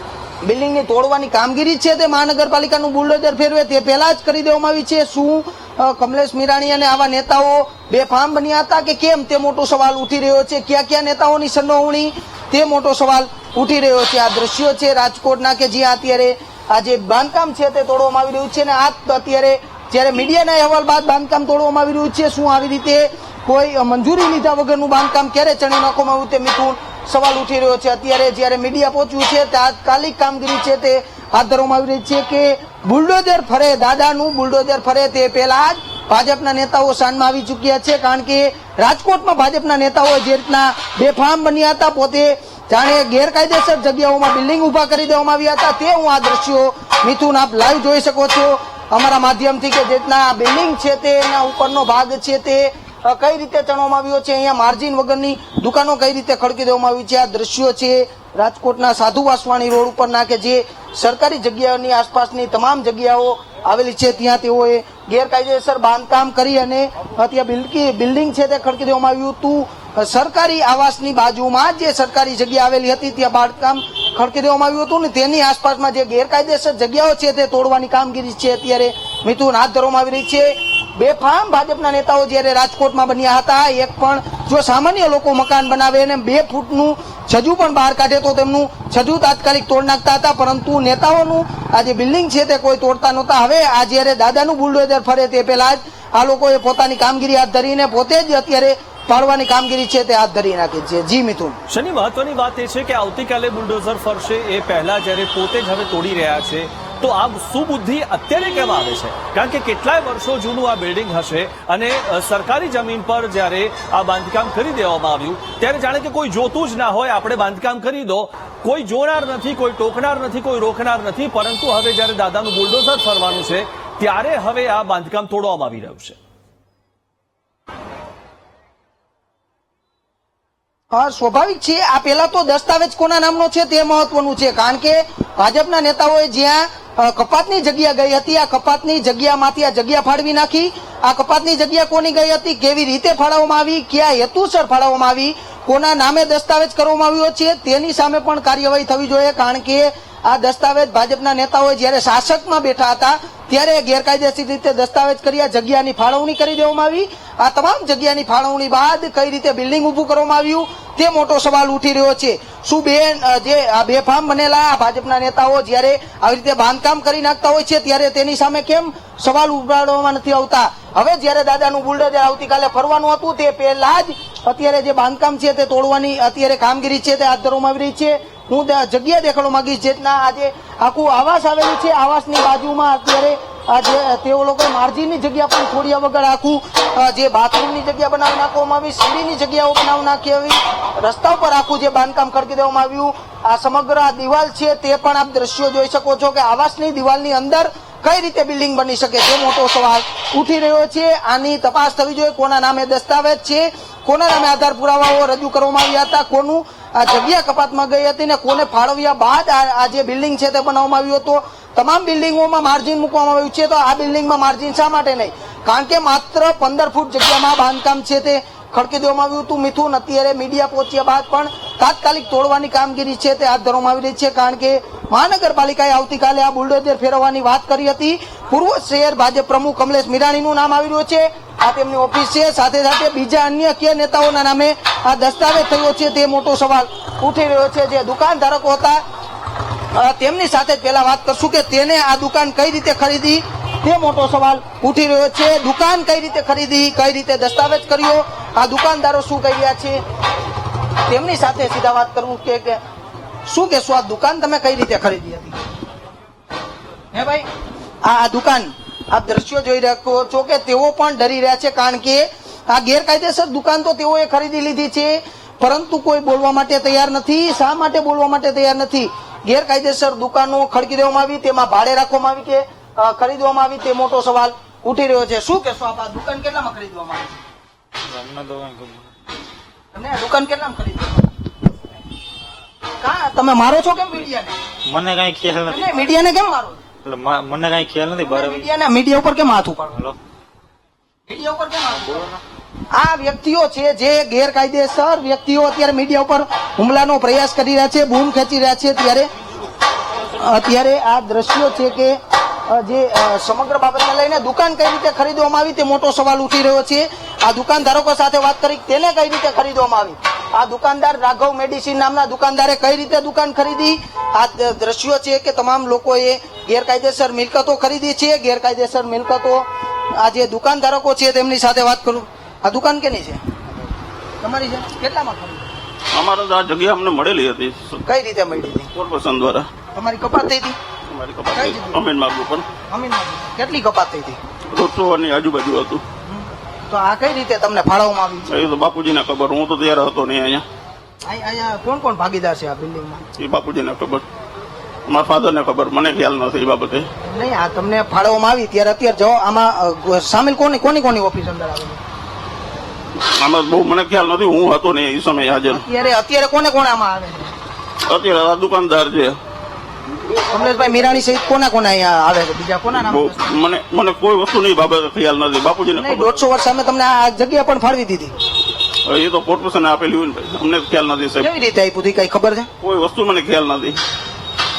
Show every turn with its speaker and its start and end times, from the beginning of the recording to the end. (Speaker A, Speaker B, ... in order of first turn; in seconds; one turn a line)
Speaker A: 0.4-101.6
Speaker B: 101.7-126.2
Speaker A: 130.9-239.0
Speaker A: 239.9-250.0
Speaker A: 251.1-252.8
Speaker A: 253.5-255.6
Speaker A: 257.1-257.5
Speaker A: 258.0-277.4
Speaker C: 278.1-279.1
Speaker A: 279.9-281.3
Speaker A: 283.0-284.6
Speaker C: 284.9-285.9
Speaker A: 285.7-286.8
Speaker C: 287.0-288.7
Speaker A: 288.3-290.0
Speaker A: 291.3-292.3
Speaker A: 292.9-299.3
Speaker A: 300.3-323.4
Speaker A: 324.4-325.7
Speaker D: 326.1-328.0
Speaker A: 328.1-328.9
Speaker D: 328.9-329.7
Speaker A: 329.9-330.8
Speaker D: 331.1-332.7
Speaker A: 331.5-332.0
Speaker A: 332.9-334.4
Speaker D: 334.7-336.0
Speaker A: 336.3-338.5
Speaker D: 338.5-340.6
Speaker A: 341.3-343.3
Speaker D: 343.4-344.2
Speaker D: 345.1-347.1
Speaker A: 347.2-352.0
Speaker D: 353.2-355.9
Speaker A: 355.7-357.5
Speaker D: 358.1-359.4
Speaker A: 360.4-363.6
Speaker D: 362.9-366.4
Speaker A: 365.9-368.3
Speaker D: 369.1-371.5
Speaker A: 371.4-372.7
Speaker D: 372.8-374.0